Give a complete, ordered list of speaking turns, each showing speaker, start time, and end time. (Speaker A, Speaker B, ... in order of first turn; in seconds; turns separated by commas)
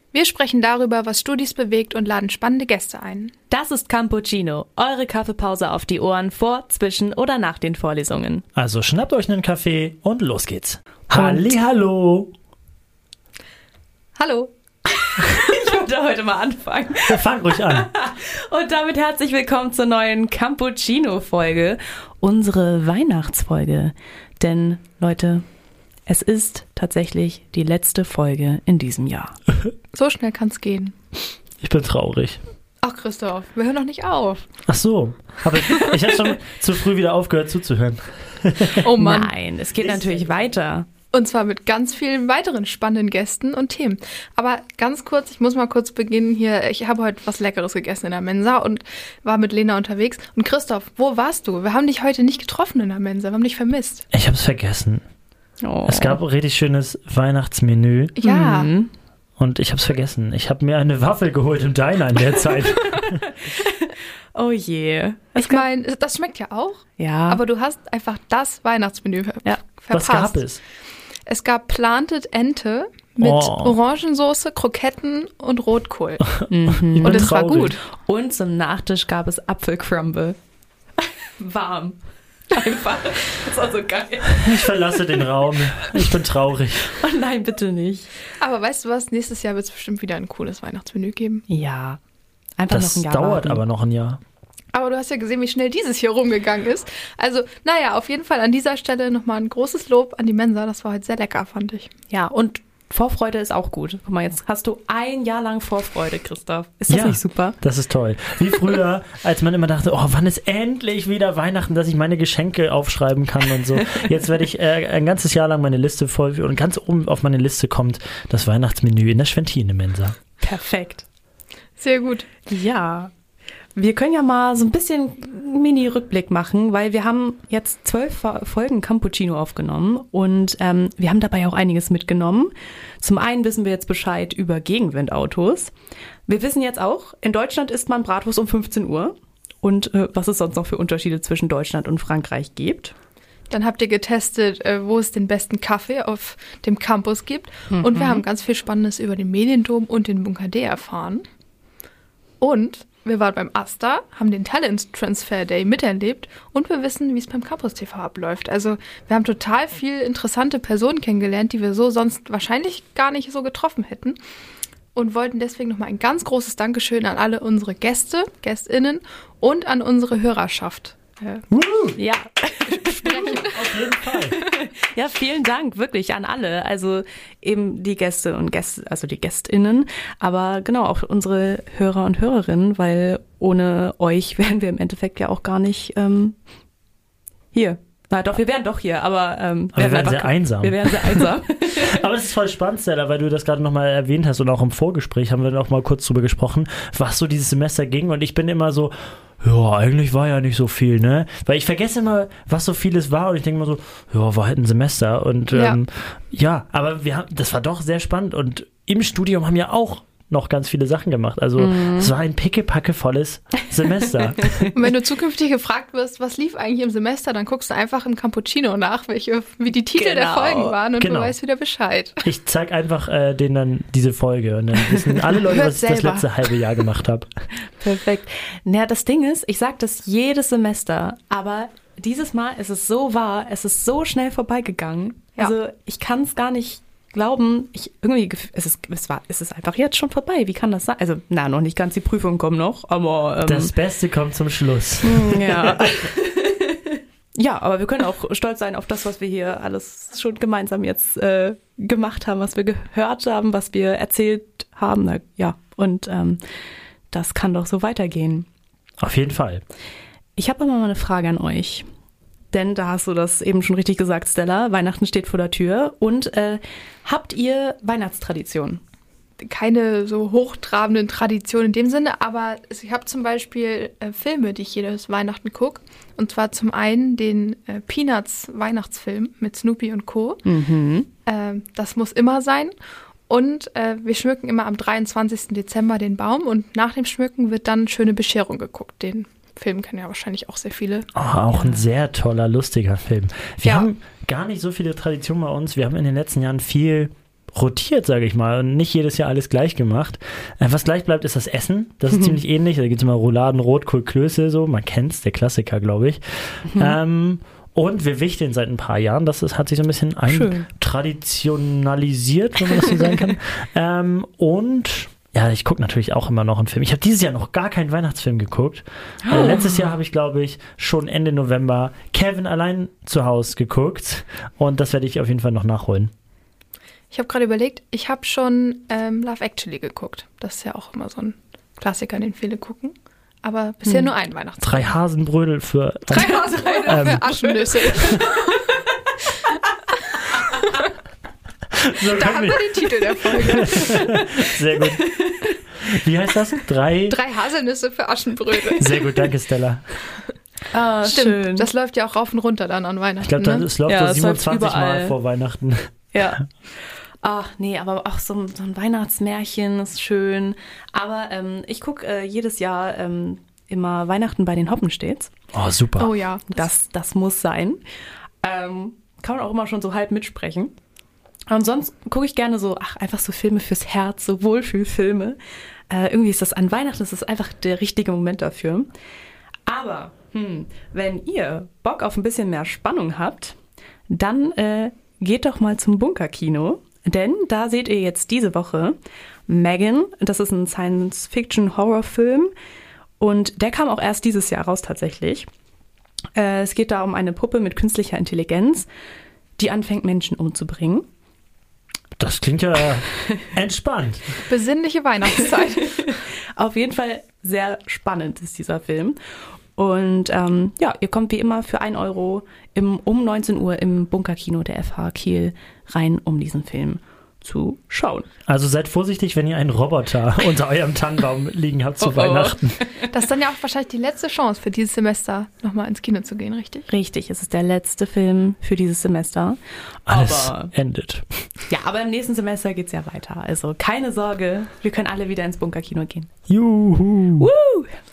Speaker A: 0.1-3.3, Speaker B: 3.5-8.4, Speaker C: 8.5-12.3, Speaker B: 11.1-11.5, Speaker A: 14.2-14.5, Speaker B: 14.9-25.4, Speaker C: 17.1-17.9, Speaker B: 26.1-29.3, Speaker A: 29.9-30.9, Speaker C: 31.6-32.4, Speaker A: 32.8-34.5, Speaker C: 34.7-38.8, Speaker A: 38.7-40.0, Speaker B: 39.0-40.9, Speaker A: 41.1-54.0, Speaker C: 54.1-55.0, Speaker B: 55.6-56.2, Speaker C: 55.9-58.1, Speaker A: 58.1-58.7, Speaker B: 58.2-58.9, Speaker C: 59.4-63.3, Speaker B: 62.4-65.6, Speaker A: 65.3-70.4, Speaker B: 67.0-67.4, Speaker C: 69.9-70.6, Speaker A: 71.3-76.3, Speaker C: 73.2-73.8, Speaker C: 76.4-77.8, Speaker B: 76.5-80.3, Speaker A: 77.0-77.8, Speaker B: 81.0-82.0, Speaker B: 82.5-84.7, Speaker C: 84.3-86.9, Speaker B: 86.8-88.1, Speaker A: 88.4-91.4, Speaker B: 91.5-92.0, Speaker B: 92.6-93.6, Speaker C: 92.7-94.2, Speaker A: 94.7-101.9, Speaker B: 102.1-107.5, Speaker C: 106.9-120.1, Speaker B: 113.7-114.0, Speaker B: 120.4-121.0, Speaker A: 121.8-122.3, Speaker B: 122.5-123.1, Speaker B: 123.7-135.7, Speaker B: 136.3-142.9, Speaker A: 143.5-151.2, Speaker B: 147.7-148.2, Speaker A: 152.4-164.2, Speaker A: 164.9-171.5, Speaker C: 171.5-172.0, Speaker B: 172.0-186.3, Speaker A: 172.8-173.6, Speaker C: 173.2-174.4, Speaker B: 187.5-192.0, Speaker C: 189.7-214.7, Speaker A: 205.5-205.8, Speaker B: 211.6-212.1, Speaker B: 214.2-214.7, Speaker A: 214.7-222.2, Speaker B: 219.9-220.8, Speaker C: 221.0-221.3, Speaker C: 222.2-227.3, Speaker B: 224.9-226.5, Speaker B: 227.8-243.7, Speaker C: 243.4-245.9, Speaker B: 245.0-256.4, Speaker B: 257.1-258.5, Speaker C: 259.0-259.6, Speaker B: 260.4-261.8, Speaker B: 262.5-268.8, Speaker A: 269.4-280.4, Speaker B: 280.4-281.1, Speaker A: 281.2-282.7, Speaker A: 283.3-291.1, Speaker C: 291.1-326.1, Speaker A: 293.6-293.9, Speaker B: 302.1-302.4, Speaker B: 306.7-307.0, Speaker B: 310.3-310.7, Speaker B: 319.2-319.9, Speaker A: 327.1-334.9, Speaker B: 333.8-334.1, Speaker C: 334.6-337.3, Speaker A: 336.1-338.8, Speaker B: 336.2-338.5, Speaker C: 341.7-345.0, Speaker A: 342.1-344.0, Speaker B: 343.6-345.5, Speaker C: 345.8-347.2, Speaker A: 347.1-349.1, Speaker C: 348.8-349.8, Speaker B: 350.7-351.7, Speaker A: 351.0-353.7, Speaker C: 353.2-356.0, Speaker B: 353.9-355.2, Speaker B: 356.1-356.5, Speaker B: 357.2-365.3, Speaker C: 365.5-366.1, Speaker A: 366.0-366.7, Speaker B: 366.5-367.8, Speaker B: 368.4-370.7, Speaker B: 371.5-375.4, Speaker B: 375.9-378.9, Speaker B: 379.6-383.6, Speaker B: 384.1-389.0, Speaker B: 389.5-392.5, Speaker B: 393.2-395.5, Speaker B: 396.4-398.9, Speaker B: 399.6-401.1, Speaker C: 402.2-404.2, Speaker A: 404.4-406.1, Speaker B: 405.6-409.2, Speaker B: 409.8-418.3, Speaker C: 418.4-422.8, Speaker B: 422.0-423.1, Speaker A: 423.1-426.9, Speaker B: 426.9-430.7, Speaker C: 430.1-431.2, Speaker B: 431.7-436.3, Speaker C: 436.5-437.5, Speaker B: 437.4-437.9